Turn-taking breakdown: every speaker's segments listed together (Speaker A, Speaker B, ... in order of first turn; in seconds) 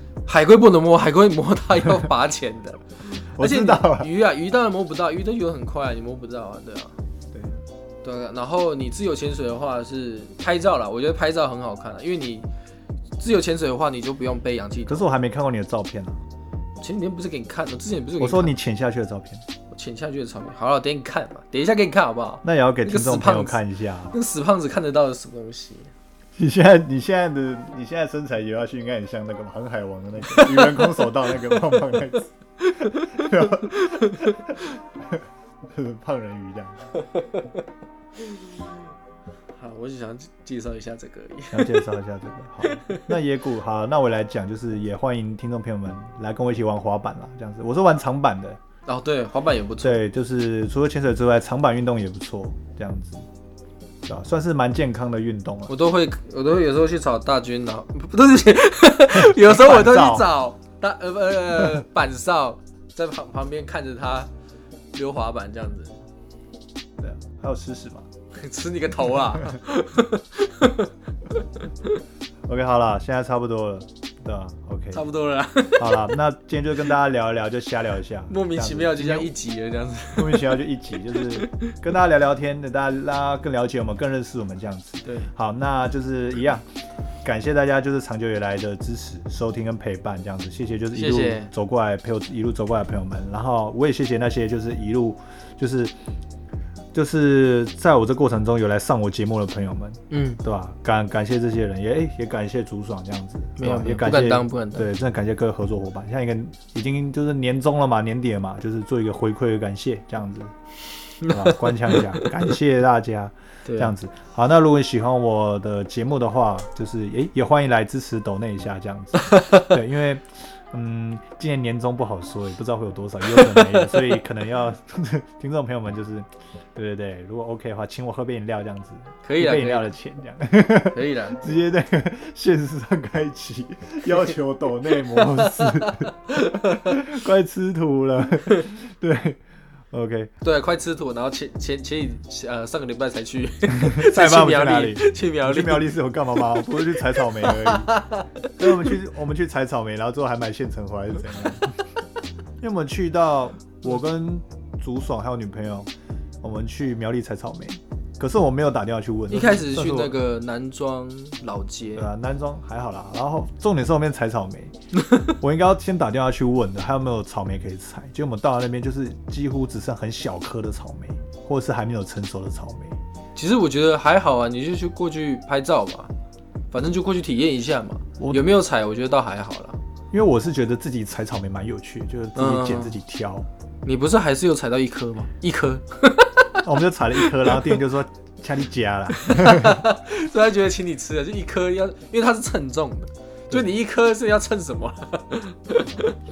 Speaker A: 0.2-6.9, 8.0-12.5, 13.2-15.0, 16.8-18.5, 19.7-25.9, 30.3-32.0, 32.6-34.5, 37.1-37.5, 38.2-38.6, 39.5-41.9, 42.6-43.0, 48.9-50.0, 55.7-64.3, 64.9-66.0, 68.3-72.0, 74.9-76.2, 78.3-81.7, 85.0-85.3, 90.9-91.5, 100.1-100.4, 103.6-104.8, 111.3-112.3, 113.6-113.9, 119.3-119.6, 123.3-124.0, 129.2-129.9, 130.8-131.6, 134.9-137.0, 140.4-148.9, 159.3-162.1, 173.3-176.1, 176.7-179.8, 182.3-182.9, 183.8-187.8, 189.1-196.1
Speaker B: 3.2-4.1, 14.9-16.2, 18.2-19.4, 22.4-24.1, 26.4-36.9, 41.5-48.6, 49.8-53.2, 54.0-55.7, 59.1-60.3, 67.0-68.1, 72.5-75.0, 75.8-79.3, 80.1-86.7, 87.2-95.9, 96.9-110.5, 111.3-139.4, 139.9-140.3, 143.7-147.9, 148.6-151.8, 152.6-155.9, 156.4-160.1, 161.9-173.0, 178.2-178.5, 180.1-183.5, 186.6-189.8, 193.5-193.7, 195.8-196.1